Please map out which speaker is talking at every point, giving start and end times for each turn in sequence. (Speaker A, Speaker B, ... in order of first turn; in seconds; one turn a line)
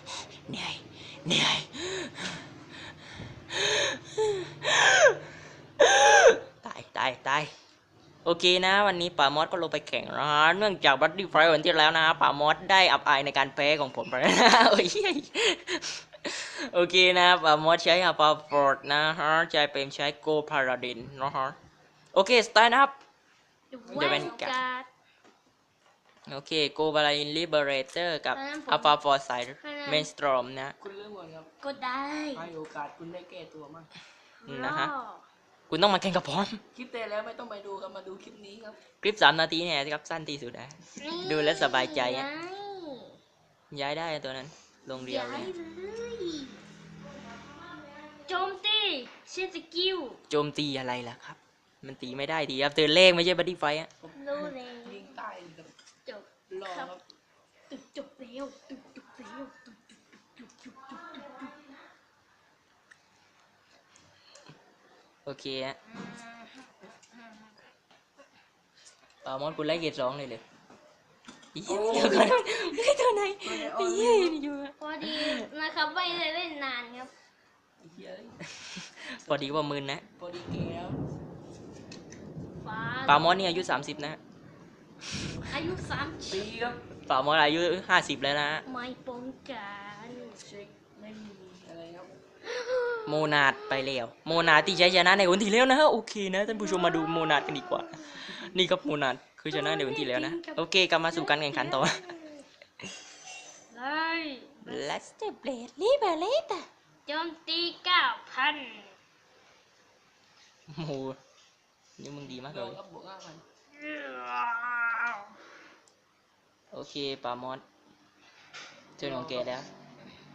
Speaker A: 0.5-2.5
Speaker A: 3.5-5.2
Speaker A: 5.8-7.5
Speaker A: 8.2-21.6
Speaker A: 22.1-22.9
Speaker B: 23.7-24.9
Speaker C: 23.9-24.4
Speaker A: 23.9-24.6
Speaker A: 26.3-30.8
Speaker B: 28.3-29.0
Speaker B: 29.6-30.1
Speaker C: 30.8-31.5
Speaker B: 31.6-32.5
Speaker C: 32.4-33.9
Speaker B: 34.4-35.2
Speaker A: 34.5-34.9
Speaker A: 35.7-36.6
Speaker C: 36.8-38.8
Speaker A: 39.0-42.3
Speaker B: 41.0-43.2
Speaker A: 43.7-45.5
Speaker B: 45.0-46.6
Speaker B: 48.2-50.2
Speaker A: 50.3-53.9
Speaker C: 54.0-55.7
Speaker B: 54.1-55.1
Speaker B: 56.1-57.0
Speaker C: 56.5-57.0
Speaker B: 57.7-61.5
Speaker A: 65.2-65.8
Speaker B: 65.9-67.5
Speaker A: 69.2-70.4
Speaker A: 71.5-75.5
Speaker C: 71.7-72.5
Speaker C: 73.4-74.4
Speaker B: 74.8-77.1
Speaker C: 77.8-78.4
Speaker A: 78.7-80.0
Speaker C: 79.3-79.6
Speaker C: 80.2-81.0
Speaker B: 82.6-83.9
Speaker A: 83.1-84.2
Speaker C: 85.3-85.6
Speaker B: 85.5-86.5
Speaker C: 86.3-86.8
Speaker A: 87.1-88.6
Speaker B: 88.7-90.4
Speaker C: 90.3-92.1
Speaker B: 92.5-95.3
Speaker A: 93.1-102.1
Speaker B: 96.5-98.3
Speaker B: 99.5-102.5
Speaker B: 103.7-104.9
Speaker A: 104.7-106.7
Speaker B: 107.1-108.9
Speaker A: 110.7-111.2
Speaker A: 112.0-112.8
Speaker C: 112.2-113.4
Speaker B: 113.8-115.3
Speaker A: 116.7-117.6
Speaker A: 119.0-119.7
Speaker C: 119.0-119.6